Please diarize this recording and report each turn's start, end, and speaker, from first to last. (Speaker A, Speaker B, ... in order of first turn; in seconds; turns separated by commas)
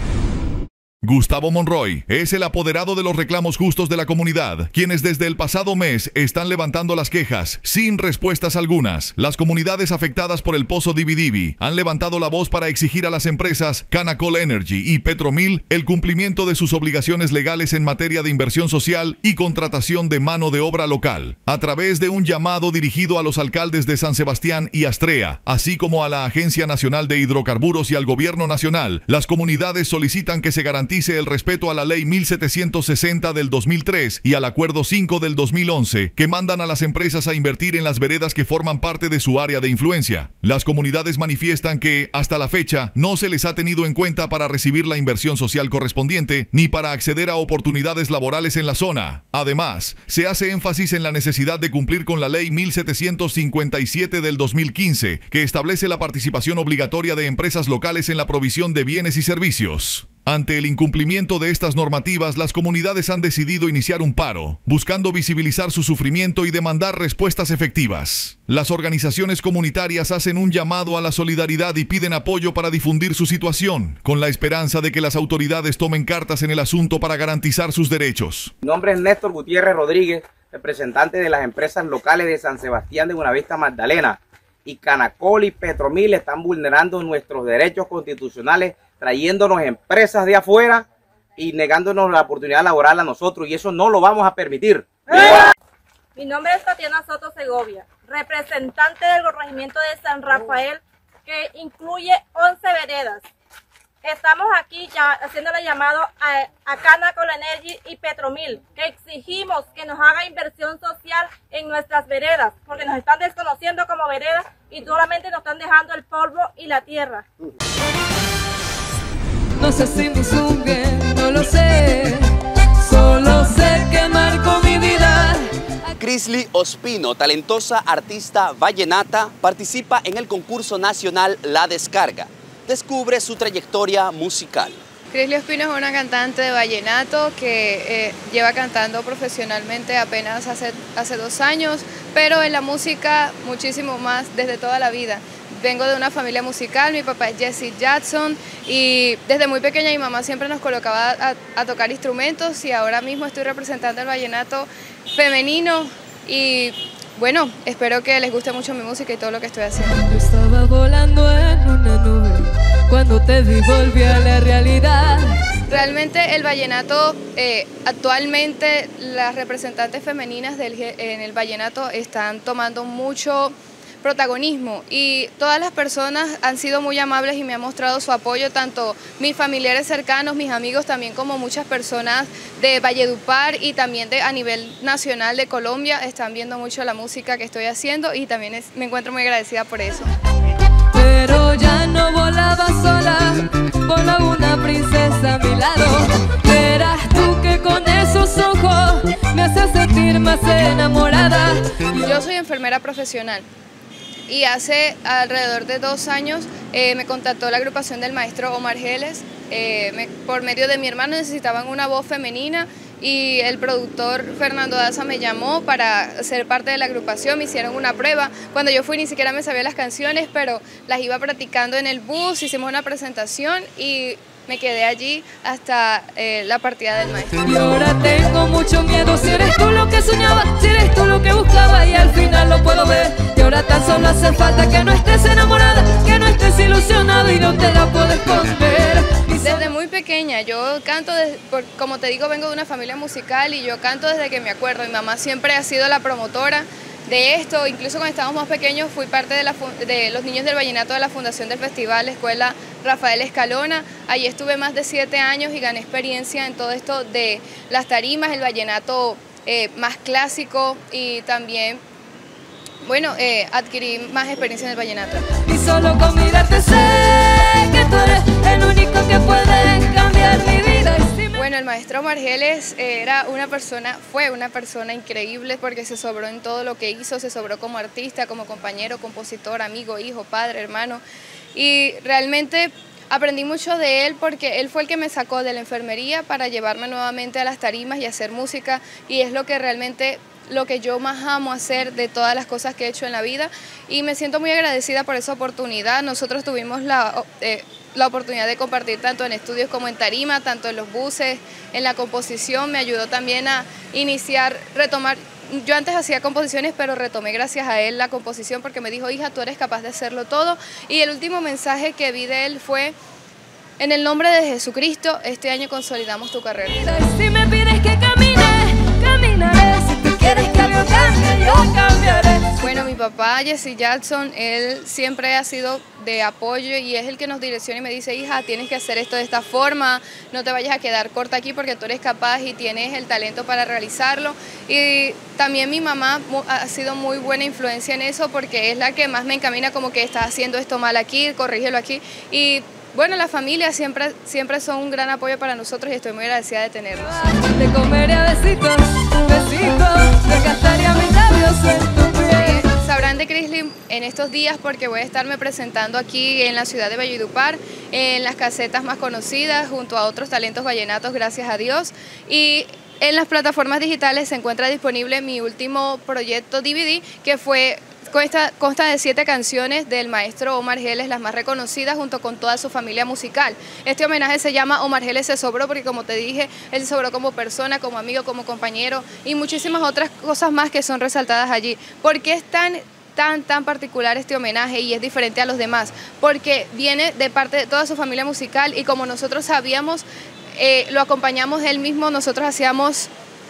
Speaker A: 1.0-78.5, Speaker B: 78.6-90.8, Speaker B: 91.4-94.9, Speaker C: 96.2-103.2, Speaker C: 104.0-117.2, Speaker D: 119.6-125.4, Speaker E: 126.0-134.8, Speaker F: 135.1-159.9, Speaker D: 159.9-165.3, Speaker F: 165.7-190.1, Speaker D: 190.9-202.2, Speaker F: 202.0-203.4, Speaker F: 204.3-227.4, Speaker D: 227.4-239.7, Speaker F: 239.4-261.8, Speaker F: 262.8-265.3, Speaker D: 265.4-271.4, Speaker F: 271.3-281.0, Speaker F: 281.5-312.9, Speaker F: 313.8-316.9, Speaker D: 316.6-322.7, Speaker F: 322.6-347.1, Speaker D: 347.0-352.7, Speaker F: 352.3-390.0, Speaker F: 390.6-393.1